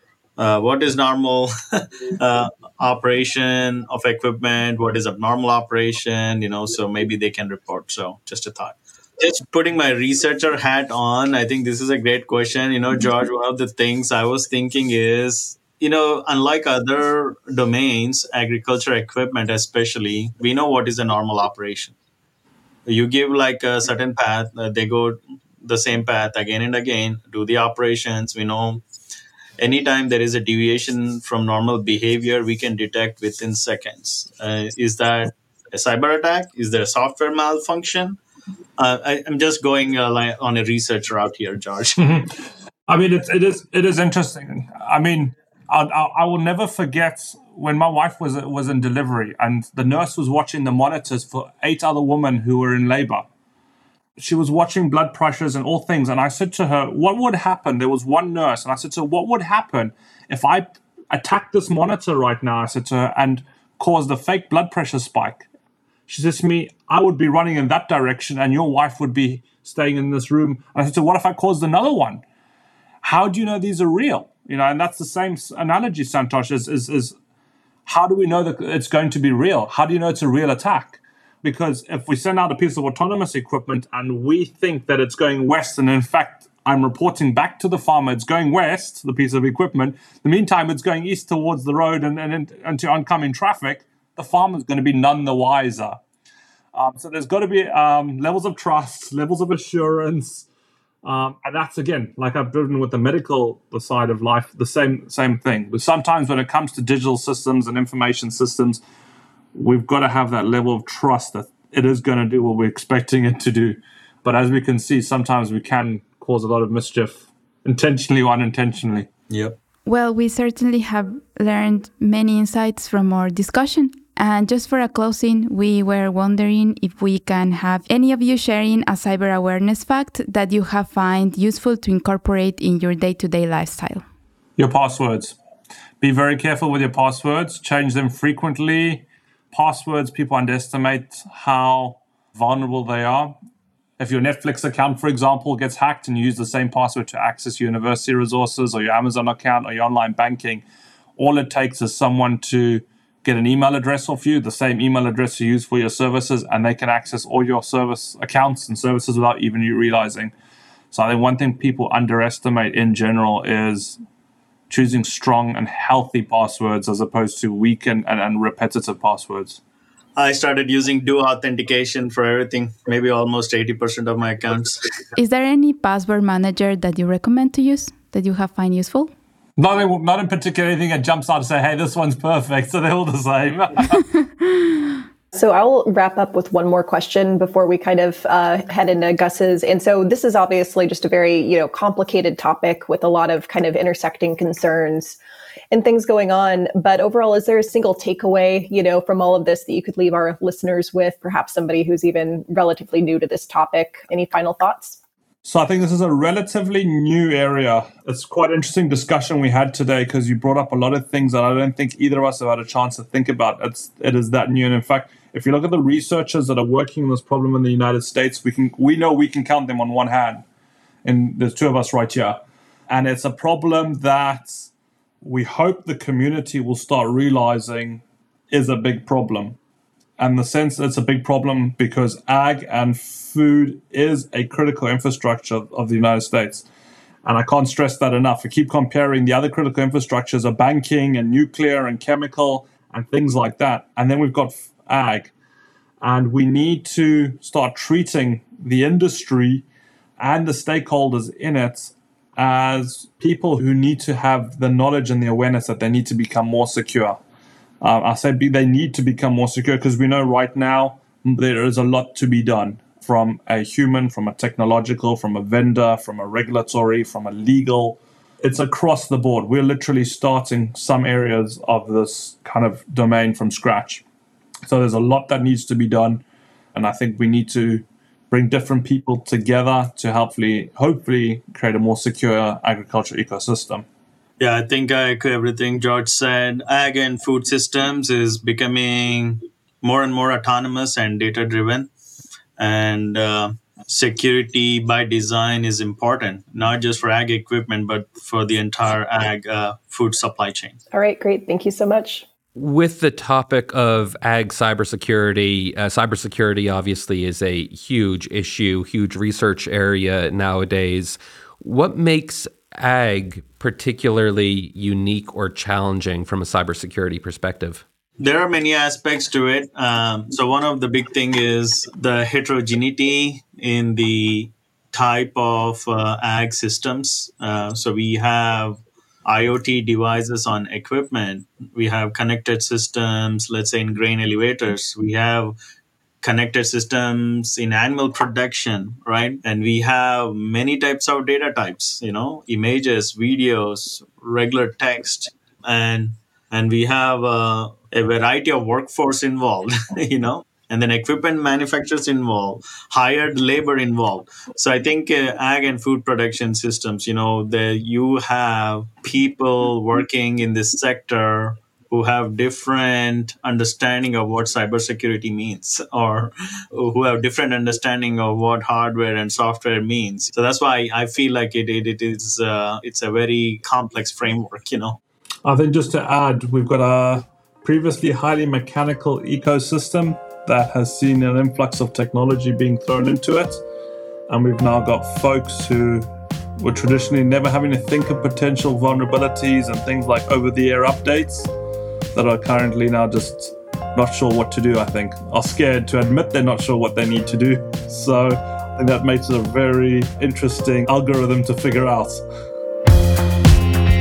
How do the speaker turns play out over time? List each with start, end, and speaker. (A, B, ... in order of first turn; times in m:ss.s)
0:00.4-0:21.9 A
0:22.9-0:28.8 A
0:29.6-0:38.2 A
0:38.8-0:42.0 A
0:42.9-0:53.2 B
0:54.2-1:05.4 B
1:06.1-1:12.2 B
1:13.0-1:17.1 B
1:17.9-1:36.0 B
1:36.7-1:40.4 B
1:41.0-1:48.8 B
1:49.5-1:59.1 B
1:59.3-1:59.6 A
1:59.9-2:14.0 C
2:14.6-2:15.3 B
2:16.0-2:23.3 B
2:24.0-2:30.6 B
2:31.2-2:40.3 B
2:40.9-2:44.0 B
2:44.7-2:49.6 B
2:50.2-2:54.9 A
2:55.1-2:59.1 C
2:59.6-3:04.1 B
3:05.3-3:15.2 D
3:15.7-3:25.0 D
3:25.4-3:40.4 B
3:41.0-3:44.7 B
3:45.2-3:49.6 B
3:50.2-3:56.6 B
3:57.2-4:05.3 B
4:06.0-4:09.6 B
4:10.2-4:17.2 B
4:17.8-4:34.0 B
4:34.6-4:43.8 B
4:44.4-4:51.9 A
4:52.6-5:00.8 A
5:00.9-5:02.2 D
5:02.6-5:17.8 E
5:18.2-5:35.6 A
5:36.2-6:15.0 A
6:15.4-6:23.6 B
6:24.3-6:31.5 B
6:32.1-6:42.2 B